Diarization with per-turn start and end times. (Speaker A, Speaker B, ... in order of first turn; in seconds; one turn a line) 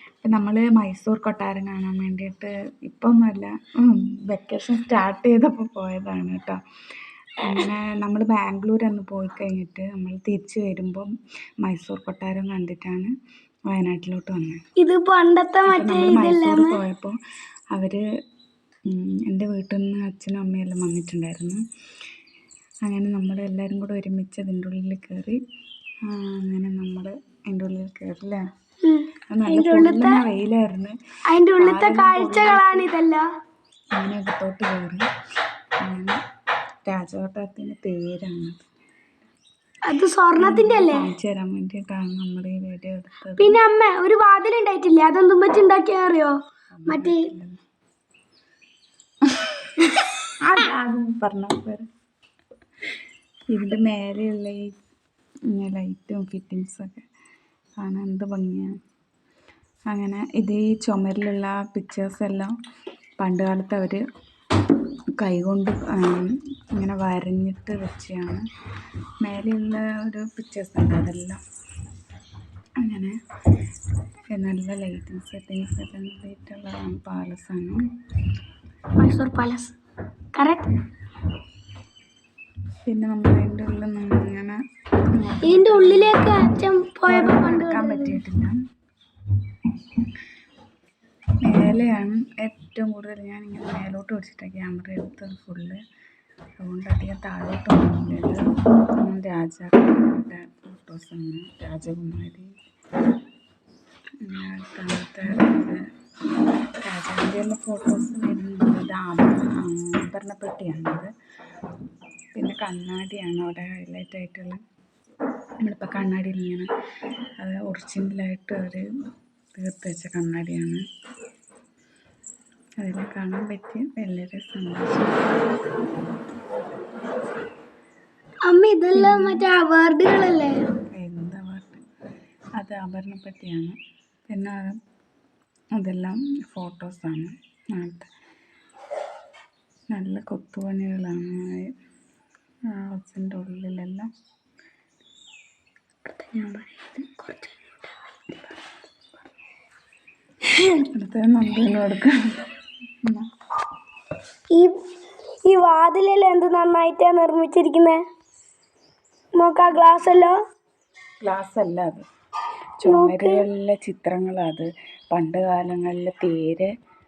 Speaker A: 0.2-6.6
Speaker A: 7.4-11.1
Speaker A: 11.6-13.1
Speaker A: 13.7-14.6
Speaker B: 14.8-16.8
Speaker A: 15.7-17.1
Speaker A: 17.7-18.0
Speaker A: 18.9-21.6
Speaker A: 22.9-25.4
Speaker A: 26.1-28.4
Speaker B: 28.8-30.2
Speaker A: 29.3-31.0
Speaker B: 31.3-33.2
Speaker A: 31.6-32.9
Speaker A: 33.9-35.0
Speaker A: 35.8-36.2
Speaker A: 36.9-38.7
Speaker B: 39.8-41.0
Speaker A: 40.4-43.6
Speaker B: 43.4-47.2
Speaker A: 46.7-47.6
Speaker A: 49.4-51.9
Speaker A: 53.5-54.7
Speaker A: 55.5-57.0
Speaker A: 57.8-58.7
Speaker A: 59.9-62.5
Speaker A: 63.2-64.0
Speaker A: 65.2-68.4
Speaker A: 69.2-71.4
Speaker A: 72.8-73.1
Speaker A: 74.3-77.8
Speaker B: 79.0-79.7
Speaker B: 80.3-80.8
Speaker A: 82.8-84.6
Speaker A: 85.1-88.6
Speaker B: 85.4-88.2
Speaker A: 91.4-95.8
Speaker A: 96.6-98.4
Speaker A: 99.0-102.5
Speaker A: 104.2-105.8
Speaker A: 106.8-111.1
Speaker A: 112.3-114.6
Speaker A: 115.6-116.7
Speaker A: 117.4-118.8
Speaker A: 119.5-120.8
Speaker A: 122.8-125.3
Speaker B: 128.5-130.6
Speaker A: 128.9-129.4
Speaker A: 130.9-131.8
Speaker A: 132.6-133.8
Speaker A: 134.3-134.7
Speaker A: 135.8-138.1
Speaker A: 139.9-141.7
Speaker A: 142.7-144.1
Speaker B: 146.1-147.5
Speaker A: 146.4-146.7
Speaker A: 150.7-153.3
Speaker B: 155.4-158.0
Speaker B: 159.4-160.4
Speaker A: 161.2-162.0
Speaker A: 162.8-166.7
Speaker B: 162.8-163.4